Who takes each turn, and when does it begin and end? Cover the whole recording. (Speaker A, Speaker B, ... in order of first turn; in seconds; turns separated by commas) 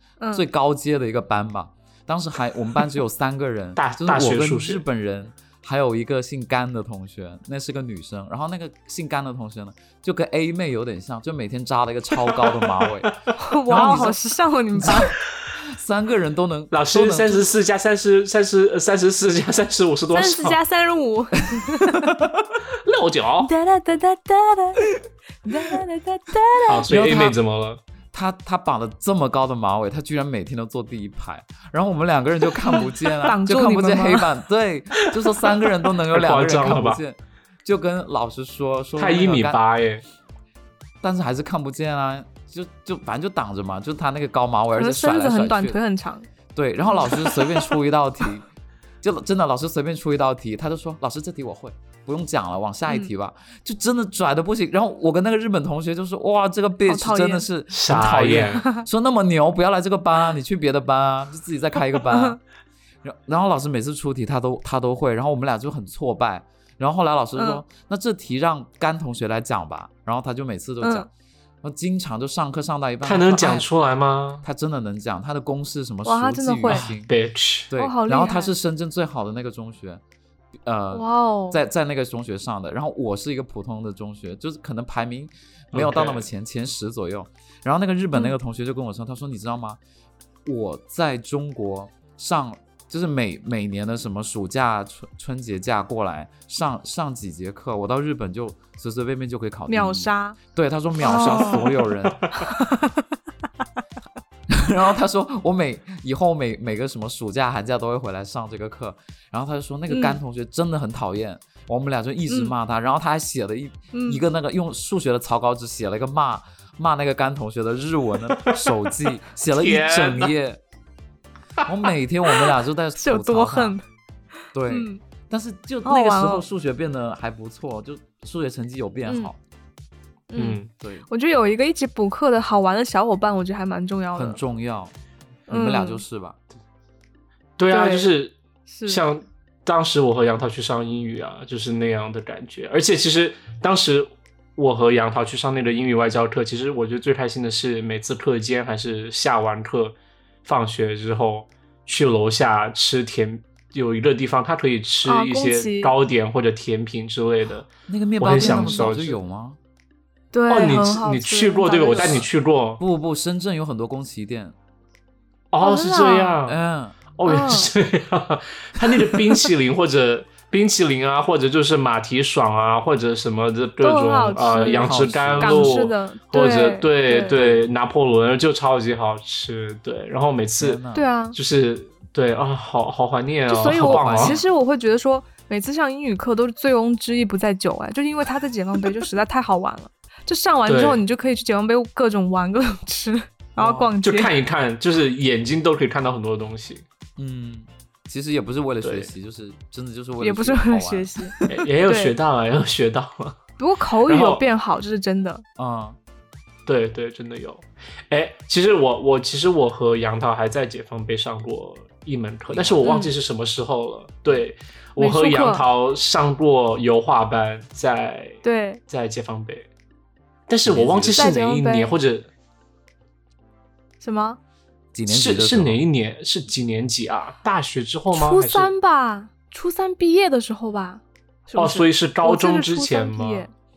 Speaker A: 0.2-0.5, Speaker B: 0.3-13.2, Speaker C: 3.8-4.8, Speaker A: 13.3-15.1, Speaker B: 13.7-14.2, Speaker B: 14.7-17.4, Speaker C: 16.7-20.6, Speaker A: 20.1-22.2, Speaker C: 22.7-23.5, Speaker A: 23.4-24.8, Speaker A: 25.4-26.9, Speaker C: 26.7-27.8, Speaker B: 26.9-27.4, Speaker B: 28.1-39.6, Speaker A: 33.2-34.3, Speaker C: 36.1-37.0, Speaker C: 39.0-40.0, Speaker B: 41.0-45.8, Speaker A: 44.8-46.3, Speaker B: 46.5-48.5, Speaker A: 46.9-47.3, Speaker B: 49.0-62.4, Speaker A: 56.9-57.4, Speaker C: 57.7-58.6, Speaker A: 62.1-62.4, Speaker B: 63.0-71.1, Speaker A: 67.4-67.6, Speaker A: 70.8-71.1, Speaker B: 71.6-73.7, Speaker C: 73.0-74.4, Speaker B: 74.4-77.1, Speaker A: 76.0-76.9, Speaker C: 76.7-77.7, Speaker B: 77.7-80.0, Speaker A: 77.8-78.5, Speaker B: 80.6-89.8, Speaker A: 80.9-81.6, Speaker C: 85.7-86.3, Speaker B: 90.4-102.2, Speaker A: 99.7-100.4, Speaker A: 101.0-101.7, Speaker C: 101.2-102.4, Speaker A: 102.4-103.0, Speaker B: 104.5-120.6, Speaker A: 109.9-110.2, Speaker A: 113.9-114.2, Speaker C: 119.5-120.3, Speaker B: 121.6-123.8, Speaker A: 123.0-123.8, Speaker B: 124.5-129.4, Speaker A: 124.7-125.0, Speaker A: 125.8-126.4, Speaker A: 129.1-129.3, Speaker A: 130.3-134.4, Speaker C: 130.3-130.7, Speaker B: 130.8-131.1, Speaker B: 134.1-134.9, Speaker A: 135.5-136.0, Speaker B: 135.5-136.4, Speaker C: 137.6-157.7, Speaker A: 137.7-138.1, Speaker A: 138.7-139.0, Speaker A: 155.0-155.9, Speaker B: 157.9-159.6, Speaker C: 158.2-159.2, Speaker A: 158.4-158.8, Speaker A: 160.3-162.2, Speaker C: 160.5-162.8, Speaker B: 162.0-162.2, Speaker B: 162.8-164.6, Speaker C: 165.5-166.6, Speaker A: 165.6-166.4, Speaker B: 166.4-167.0, Speaker C: 167.2-180.8, Speaker A: 167.2-167.7, Speaker A: 173.8-177.4, Speaker B: 174.7-175.9, Speaker B: 177.3-177.7, Speaker B: 180.6-181.1, Speaker A: 180.9-181.3, Speaker C: 181.3-184.4, Speaker A: 183.5-194.3, Speaker B: 183.7-184.4, Speaker C: 190.7-191.0, Speaker B: 193.6-193.9, Speaker C: 194.0-196.8, Speaker B: 197.2-201.5, Speaker C: 198.8-199.1, Speaker A: 200.2-202.1, Speaker C: 201.5-203.4, Speaker A: 203.6-205.4, Speaker C: 204.1-204.4, Speaker B: 205.6-206.0, Speaker C: 206.7-219.7, Speaker B: 212.5-212.9, Speaker A: 212.8-213.1, Speaker A: 215.0-215.6, Speaker A: 218.4-218.8, Speaker C: 220.5-222.3, Speaker B: 220.6-221.3, Speaker A: 221.2-221.9, Speaker A: 224.0-224.4, Speaker B: 224.9-225.8, Speaker C: 225.1-228.7, Speaker A: 228.1-233.5, Speaker C: 231.6-233.5